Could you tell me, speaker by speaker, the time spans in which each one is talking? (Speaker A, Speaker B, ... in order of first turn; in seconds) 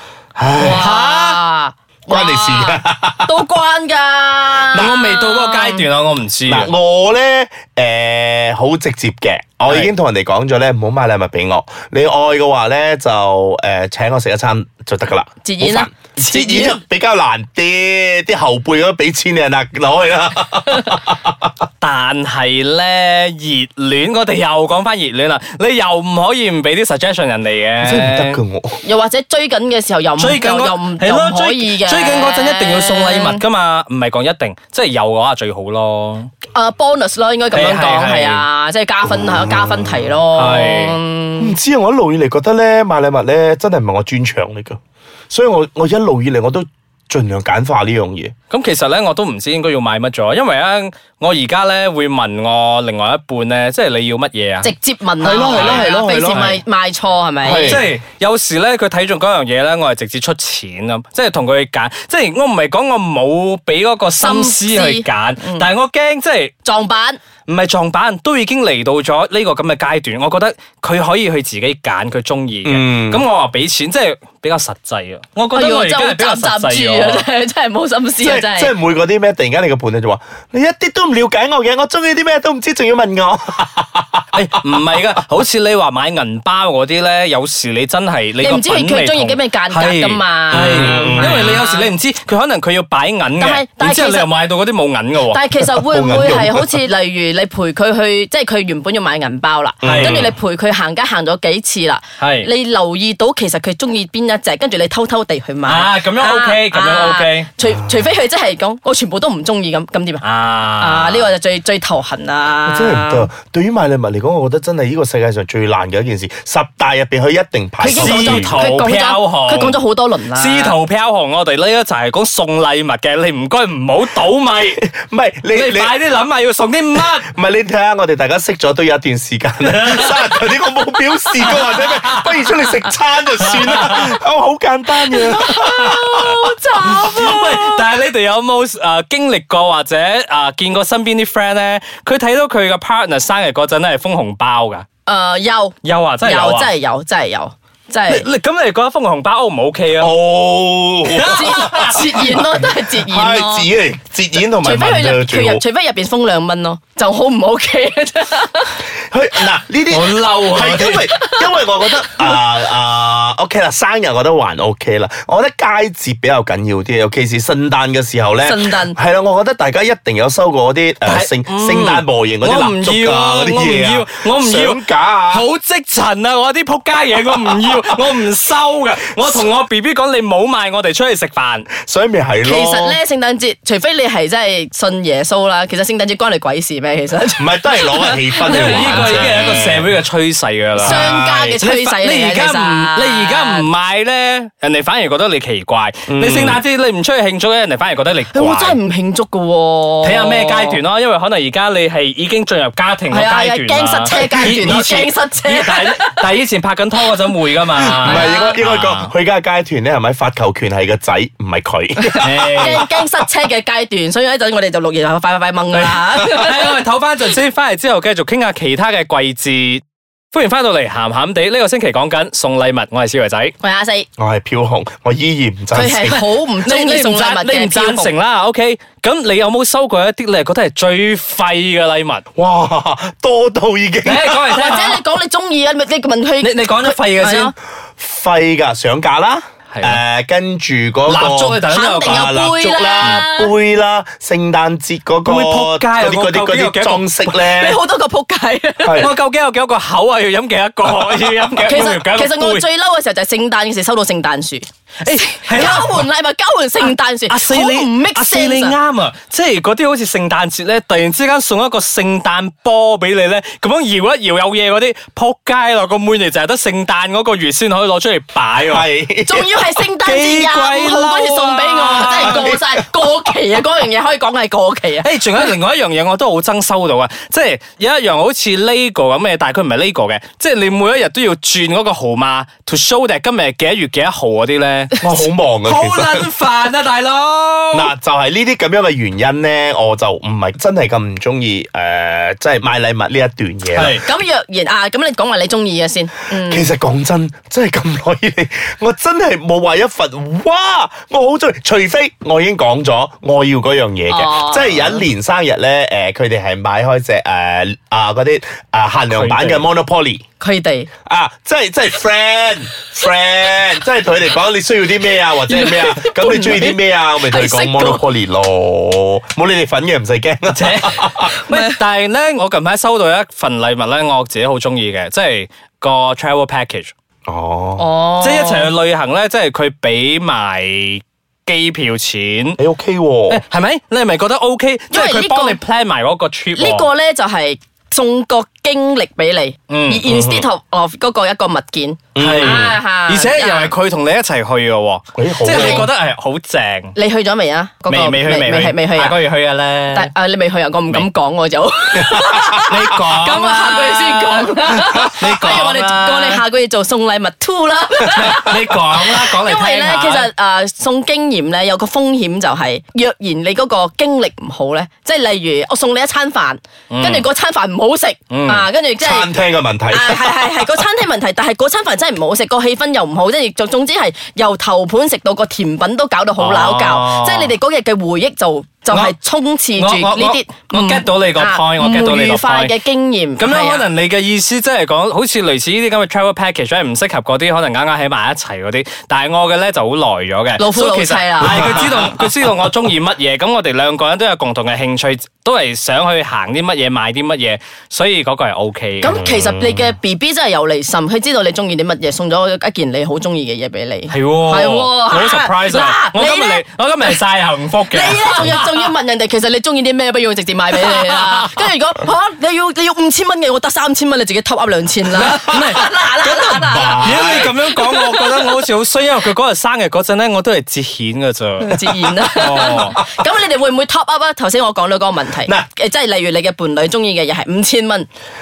Speaker A: 0.4-0.8, 2.1-3.4, 6.5-21.5, 27.8-28.8, 39.0-40.1, 41.4-44.8, 45.3-48.3, 55.2-56.5, 57.4-57.9, 72.6-73.3, 78.2-84.2, 90.5-91.6, 95.9-96.8, 99.8-100.3, 107.7-108.0, 112.6-118.5, 124.8-125.9, 127.2-136.3, 150.0-155.6, 159.1-175.5, 181.7-183.0, 187.4-189.9, 190.8-191.6, 196.1-196.6, 204.1-204.9, 207.7-212.9, 224.2-226.2, 232.3-234.7, 238.0-247.8, 248.8-249.1, 268.6-269.8, 272.0-272.6, 285.0-286.3, 287.7-294.0, 296.3-310.2, 311.1-321.3, 327.3-327.8, 332.6-333.4, 340.1-340.4, 342.1-342.7, 345.1-345.9, 352.0-352.8, 369.0-370.8, 391.4-392.3, 399.1-399.9, 415.2-415.8, 416.4-417.6, 422.6-423.0
Speaker B: 0.5-1.4, 4.7-6.7, 9.7-9.9, 21.8-28.4, 30.2-36.3, 37.5-38.4, 40.3-41.0, 48.5-54.7, 55.2-56.6, 57.5-66.5, 67.5-77.2, 84.3-95.4, 99.8-100.3, 102.2-102.5, 105.7-107.5, 110.2-111.3, 117.9-119.8, 120.3-124.8, 125.5-127.3, 129.6-132.8, 133.4-134.2, 135.2-136.1, 136.8-144.8, 145.8-146.7, 148.1-150.1, 151.1-152.4, 159.9-161.1, 171.0-181.7, 188.4-198.8, 200.0-209.1, 212.2-212.9, 215.7-223.5, 226.1-232.2, 234.0-235.0, 236.4-237.5, 239.7-240.0, 241.1-242.3, 245.2-247.1, 249.0-252.6, 255.0-256.1, 256.8-268.9, 270.0-272.5, 275.0-285.1, 285.6-287.9, 293.7-294.1, 309.1-309.7, 320.5-326.9, 328.2-332.6, 333.3-336.9, 339.7-340.0, 342.2-346.9, 347.9-350.1, 352.6-356.4, 358.1-360.3, 366.9-367.2, 368.3-368.6, 376.4-377.5, 378.9-379.1, 379.8-382.7, 383.4-399.2, 404.1-408.9, 410.8-411.6, 415.1-423.0
Speaker C: 0.6-5.8, 15.4-16.8, 28.8-33.4, 36.5-41.5, 54.6-57.8, 64.2-65.7, 66.6-67.2, 75.5-78.8, 88.4-91.9, 93.4-94.3, 95.3-110.2, 110.8-113.3, 117.8-120.8, 135.1-137.8, 145.1-148.3, 151.2-153.7, 154.6-158.8, 161.1-161.4, 168.4-169.0, 182.4-189.4, 190.8-193.7, 198.3-200.8, 203.1-206.3, 208.0-208.5, 212.1-216.8, 223.6-224.1, 225.7-228.1, 234.5-237.5, 241.7-243.5, 247.3-249.1, 251.6-258.8, 269.2-275.2, 294.0-296.7, 304.1-305.0, 310.4-310.9, 315.5-318.0, 327.8-328.7, 334.9-335.6, 336.6-343.7, 345.4-345.9, 346.9-349.1, 349.9-369.3, 369.9-383.8, 390.6-392.0, 399.0-407.2, 407.9-418.6, 421.6-428.1